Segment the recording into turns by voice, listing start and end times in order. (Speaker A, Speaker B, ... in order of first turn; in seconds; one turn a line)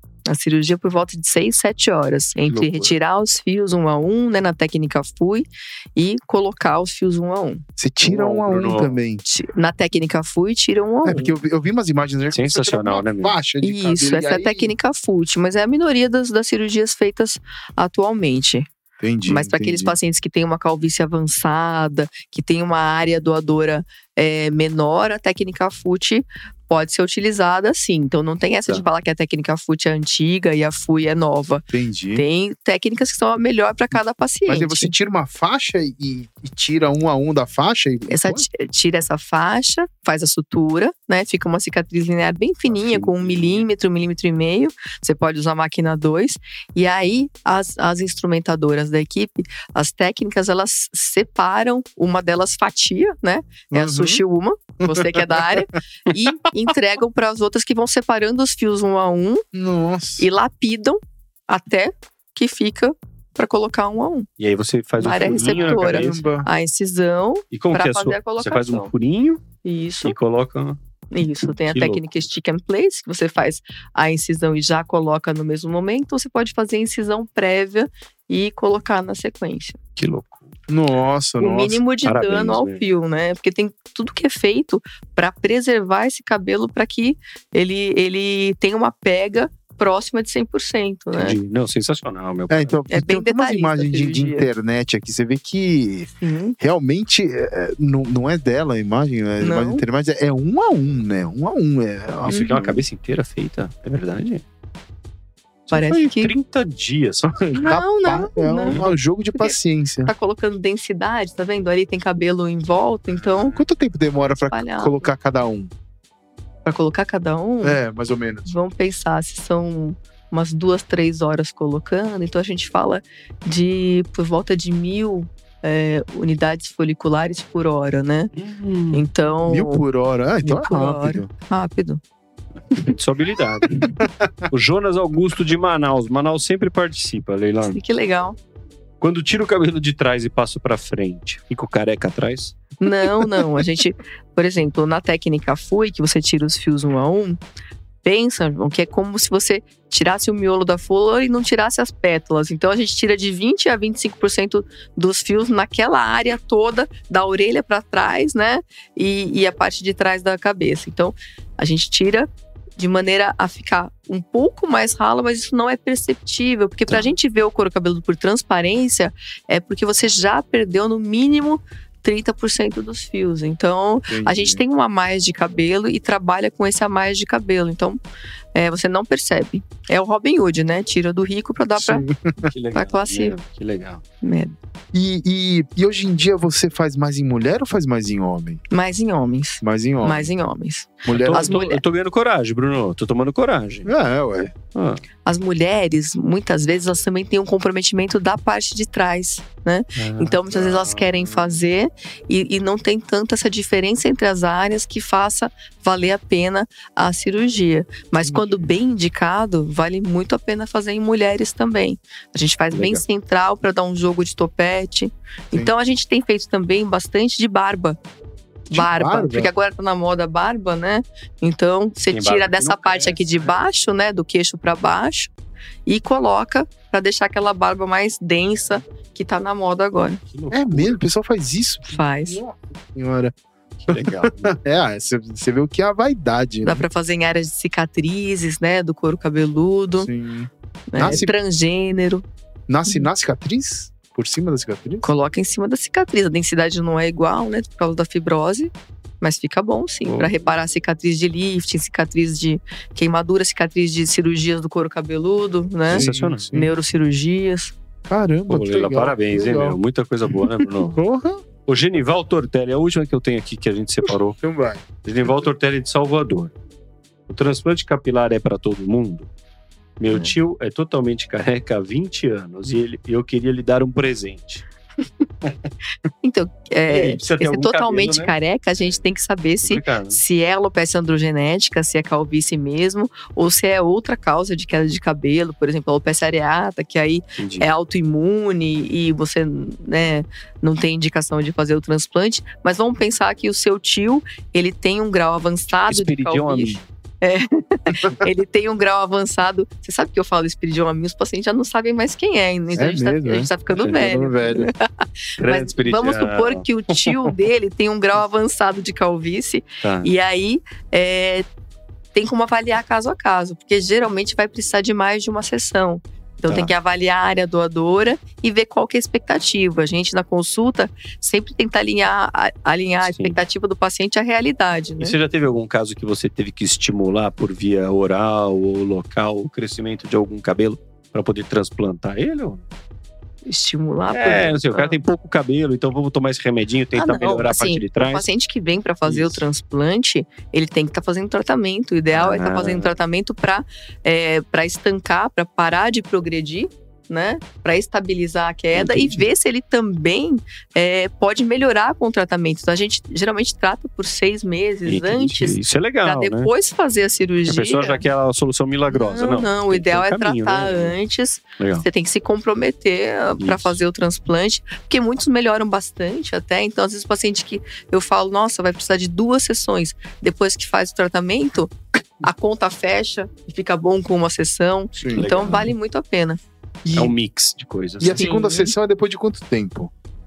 Speaker A: 0.3-7.6
Speaker B: 2.4-2.9
Speaker C: 7.8-9.2
Speaker B: 8.0-9.0
Speaker A: 9.2-11.3
Speaker C: 11.0-14.7
Speaker B: 12.3-13.3
Speaker A: 13.6-18.7
Speaker C: 19.0-20.0
Speaker A: 19.2-34.9
Speaker C: 31.7-32.2
Speaker C: 34.5-38.5
Speaker A: 38.1-59.4
Speaker B: 42.7-43.7
Speaker C: 53.7-54.2
Speaker C: 54.8-55.6
Speaker C: 59.5-60.2
Speaker A: 60.2-64.3
Speaker B: 64.4-66.2
Speaker A: 65.0-68.9
Speaker C: 65.1-66.5
Speaker B: 67.5-69.4
Speaker A: 69.6-70.1
Speaker B: 70.0-70.8
Speaker A: 71.1-79.8
Speaker B: 71.6-72.3
Speaker B: 80.0-80.5
Speaker C: 80.7-81.8
Speaker A: 81.4-91.4
Speaker B: 82.0-82.8
Speaker B: 91.1-92.8
Speaker C: 92.5-102.4
Speaker A: 92.9-94.5
Speaker A: 96.2-96.5
Speaker A: 99.4-99.8
Speaker B: 102.2-104.4
Speaker A: 102.3-102.8
Speaker B: 105.7-107.7
Speaker A: 105.7-106.3
Speaker A: 107.5-108.8
Speaker C: 107.5-110.1
Speaker B: 108.7-108.9
Speaker A: 109.3-113.6
Speaker B: 113.2-113.6
Speaker C: 113.5-115.7
Speaker A: 114.5-115.1
Speaker A: 116.6-117.8
Speaker C: 117.6-118.5
Speaker A: 118.4-128.3
Speaker B: 128.3-129.0
Speaker A: 128.9-129.8
Speaker C: 129.5-131.3
Speaker A: 130.4-132.0
Speaker B: 132.9-133.9
Speaker C: 134.0-134.4
Speaker B: 134.5-137.8
Speaker A: 137.6-138.4
Speaker B: 139.0-142.6
Speaker A: 142.8-147.4
Speaker A: 148.0-178.0
Speaker C: 174.1-174.6
Speaker A: 178.5-182.1
Speaker C: 181.8-182.5
Speaker B: 182.4-184.0
Speaker A: 182.7-183.3
Speaker A: 184.2-184.5
Speaker C: 184.9-188.6
Speaker A: 188.7-191.8
Speaker C: 189.6-190.3
Speaker C: 191.0-191.5
Speaker B: 191.1-193.9
Speaker C: 193.8-194.5
Speaker B: 194.7-195.0
Speaker A: 195.2-218.0
Speaker B: 199.9-201.5
Speaker C: 208.2-208.6
Speaker B: 212.7-213.0
Speaker A: 218.7-225.3
Speaker C: 218.7-219.5
Speaker B: 222.1-223.5
Speaker A: 225.8-230.2
Speaker B: 230.3-231.0
Speaker C: 230.5-233.3
Speaker A: 231.8-232.4
Speaker B: 233.9-234.5
Speaker C: 233.9-236.8
Speaker A: 236.6-240.1
Speaker C: 240.0-241.3
Speaker A: 240.9-242.2
Speaker C: 242.7-245.1
Speaker A: 245.0-257.7
Speaker B: 255.9-256.5
Speaker C: 255.9-256.7
Speaker C: 258.1-259.8
Speaker B: 258.5-261.0
Speaker C: 260.9-261.4
Speaker B: 261.6-264.4
Speaker C: 264.4-265.4
Speaker B: 265.0-266.5
Speaker B: 267.3-269.3
Speaker B: 270.0-274.6
Speaker B: 275.4-275.7
Speaker A: 276.2-311.4
Speaker B: 276.9-279.0
Speaker B: 279.6-280.2
Speaker B: 287.4-287.7
Speaker B: 295.9-296.9
Speaker C: 302.7-304.7
Speaker B: 303.7-304.0
Speaker B: 305.4-307.3
Speaker B: 309.8-310.1
Speaker A: 312.1-325.1
Speaker B: 316.5-316.7
Speaker B: 323.0-323.4
Speaker B: 325.0-332.6
Speaker A: 333.4-335.0
Speaker B: 334.1-338.3
Speaker A: 336.9-358.0
Speaker B: 339.0-339.4
Speaker B: 342.1-343.0
Speaker B: 348.7-349.2
Speaker B: 354.9-356.5
Speaker B: 357.4-360.9
Speaker A: 358.9-376.4
Speaker B: 361.6-361.9
Speaker B: 363.4-363.8
Speaker C: 374.9-375.6
Speaker B: 375.1-375.7
Speaker C: 376.8-377.1
Speaker B: 376.9-378.2
Speaker C: 378.0-379.9
Speaker A: 378.1-378.7